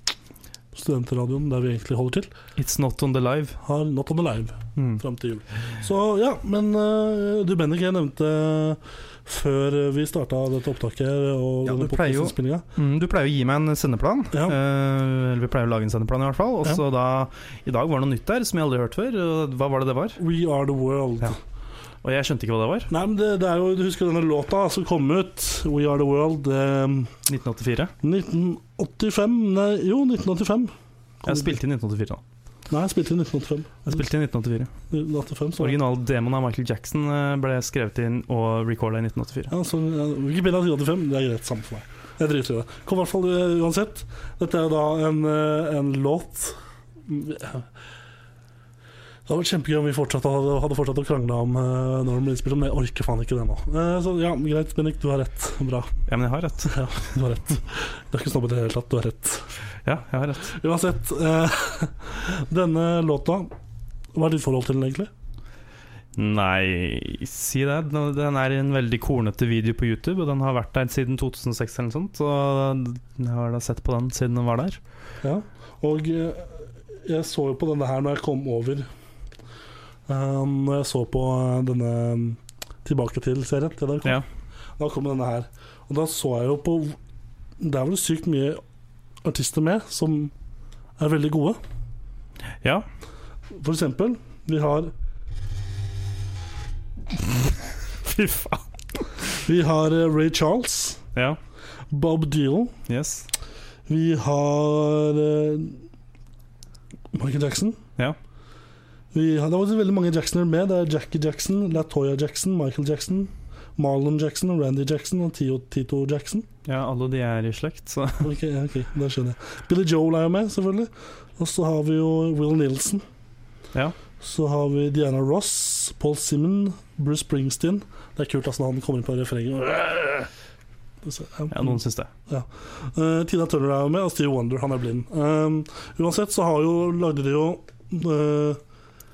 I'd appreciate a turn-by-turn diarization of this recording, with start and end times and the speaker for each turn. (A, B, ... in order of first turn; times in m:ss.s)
0:00.7-0:02.3 A
0:02.6-0:03.6 B
0:03.6-0:12.6 A
0:04.8-0:05.0 B
0:11.6-0:20.2 B
0:14.3-0:14.6 A
0:20.2-0:21.4 A
0:22.0-0:22.9 B
0:22.9-0:27.1 A
0:27.3-0:27.9 B
0:28.0-0:31.6 A
0:31.2-0:32.2 B
0:32.7-0:34.0 A
0:33.9-0:34.7 B
0:34.9-0:35.8 A
0:35.6-0:39.5 B
0:39.5-0:47.7 A
0:49.2-0:55.9 A
0:56.1-0:56.8 B
0:56.6-0:59.5 A
0:59.8-1:00.6 B
1:00.4-1:03.5 A
1:04.1-1:05.1 A
1:06.1-1:14.8 B
1:15.2-1:18.9 A
1:20.1-1:24.2 A
1:24.8-1:27.0 A
1:27.6-1:28.6 A
1:29.2-1:30.3 A
1:31.0-1:31.6 A
1:33.5-1:34.9 A
1:38.0-1:38.6 B
1:39.4-1:41.0 A
1:41.9-1:42.7 A
1:42.9-1:43.3 B
1:43.9-1:45.8 A
1:47.1-1:47.8 A
1:49.1-1:56.5 A
1:56.6-1:58.3 B
1:58.2-2:03.0 A
2:04.2-2:10.3 A
2:11.0-2:18.6 A
2:11.5-2:12.1 B